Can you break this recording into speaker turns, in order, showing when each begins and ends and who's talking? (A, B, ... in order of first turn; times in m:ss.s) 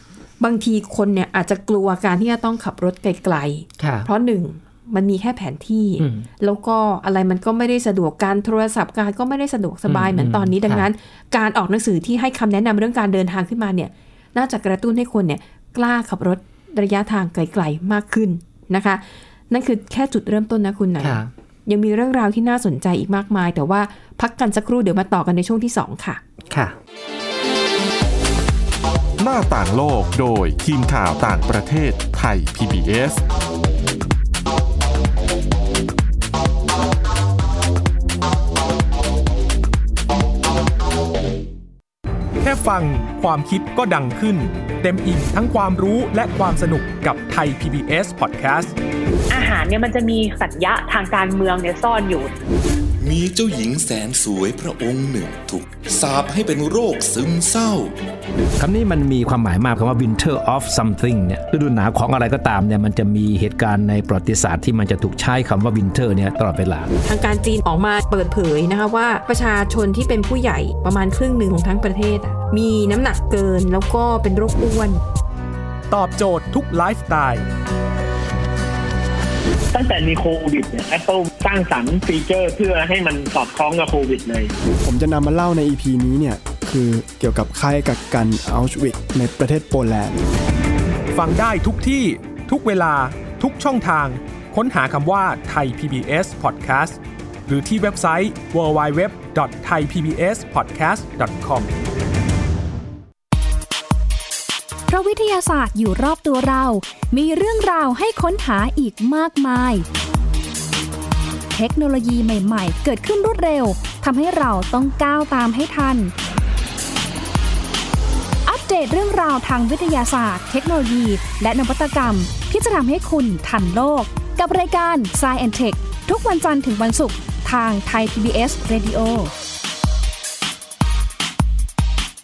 0:00.4-0:26.2 A
0:03.8-0:04.1 B
0:06.0-0:06.3 B
0:09.8-0:10.9 B
0:21.0-0:21.3 B
0:26.5-0:26.8 B
0:29.2-0:33.2 C
0:42.4-0:48.7 D
0:49.3-0:52.3 E
0:53.0-0:57.9 F
0:58.6-1:06.9 G
1:07.0-1:15.0 A
1:15.9-1:17.4 D
1:19.7-1:24.5 H
1:24.8-1:30.2 I
1:31.1-1:41.7 D
1:44.9-1:49.8 J
1:51.5-1:56.1 J
1:58.4-2:09.3 J